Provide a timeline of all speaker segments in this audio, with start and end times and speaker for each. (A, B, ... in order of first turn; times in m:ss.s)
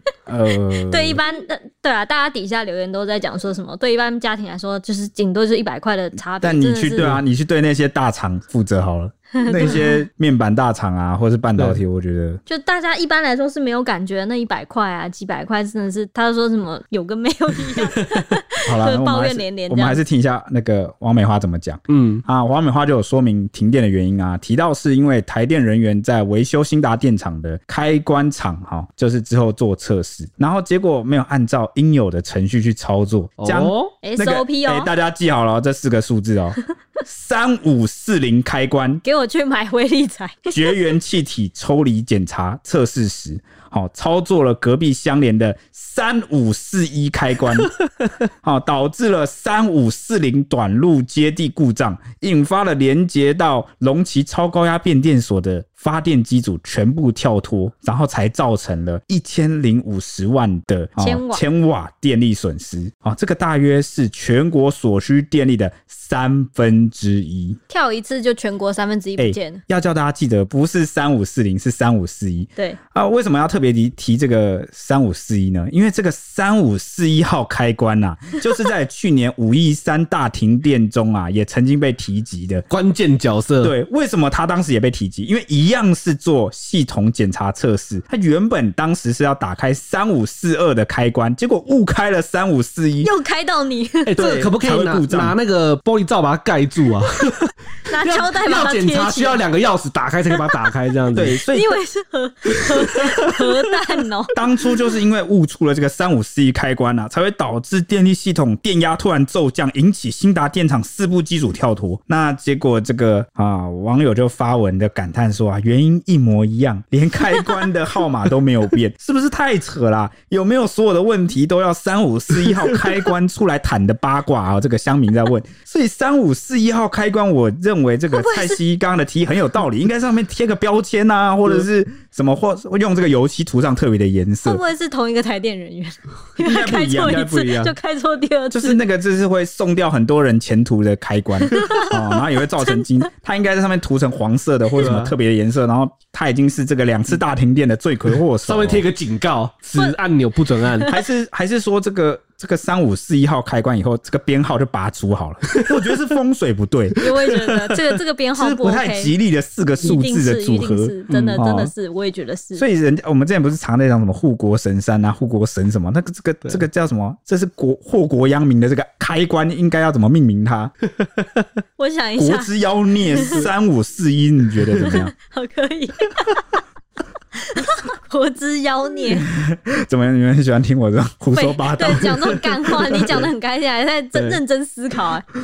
0:00.3-0:01.2 A
0:00.7-0:07.1 B
0:06.4-0:12.4 A
0:09.4-0:10.0 B
0:12.5-0:20.0 B
0:18.6-0:39.0 A
0:21.9-0:22.2 C
0:33.4-0:33.9 C
0:34.0-0:34.9 B
0:39.0-0:40.8 B
0:40.5-0:47.7 A
0:48.4-1:07.6 A
1:01.0-1:01.4 B
1:07.7-1:09.6 B
1:09.2-1:22.6 A
1:22.7-1:23.7 C
1:23.6-1:33.1 A
1:33.0-1:34.2 B
1:34.0-1:41.4 C
1:34.2-1:35.4 A
1:37.9-1:39.4 B
1:40.3-1:40.6 B
1:41.1-1:41.7 A
1:41.5-1:44.4 B
1:42.5-1:43.7 C
1:44.3-2:14.6 A
2:08.1-2:08.6 B
2:14.4-2:18.8 B
2:16.4-2:17.7 A
2:18.5-2:28.8 A
2:21.5-2:22.0 B
2:22.6-2:22.9 B
2:24.7-2:25.1 C
2:28.4-2:30.9 C
2:30.9-2:37.0 A
2:37.0-2:39.1 B
2:37.0-2:37.9 C
2:38.4-2:41.7 A
2:39.8-2:42.6 B
2:41.1-2:41.4 C
2:42.6-2:50.7 A
2:51.0-2:51.4 C
2:51.8-2:52.5 B
2:52.2-2:55.1 A
2:53.1-2:53.4 B
2:54.8-2:56.5 B
2:57.4-2:59.3 B
2:59.3-3:03.1 A
3:01.3-3:05.2 B
3:04.1-3:04.4 C